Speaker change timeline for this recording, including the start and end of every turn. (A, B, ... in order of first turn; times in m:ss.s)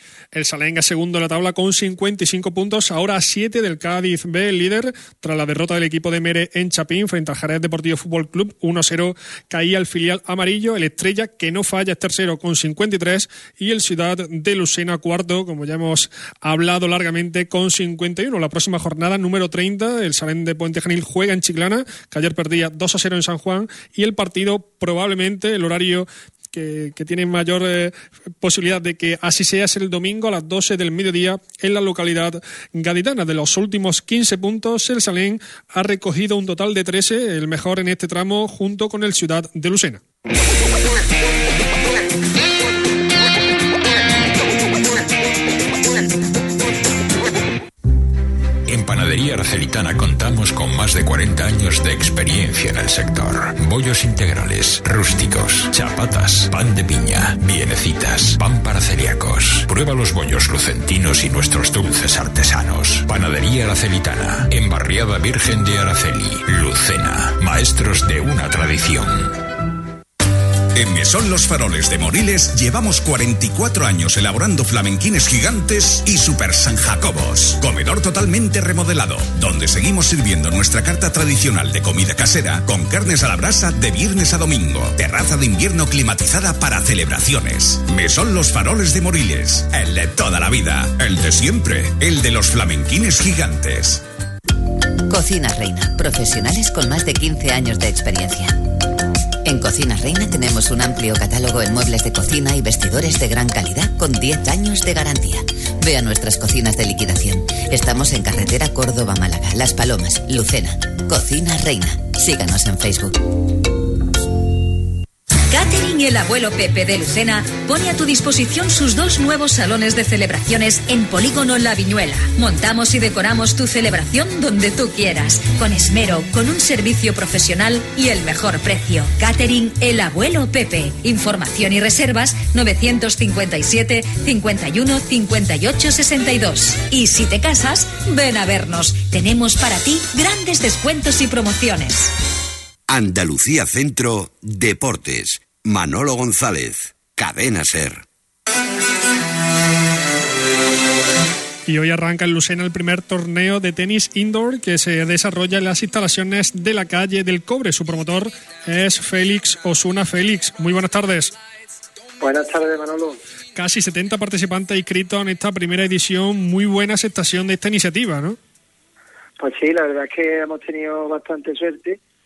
0:00.3-0:40.0 A
0:48.6-1:09.4 B
1:10.7-1:34.0 C
1:35.1-1:38.7 D
1:39.4-1:53.3 D
1:55.5-2:22.1 E
2:22.9-2:28.0 F
2:31.7-2:41.3 A
2:42.2-2:43.2 G
2:43.5-2:48.4 A
2:49.4-2:52.0 G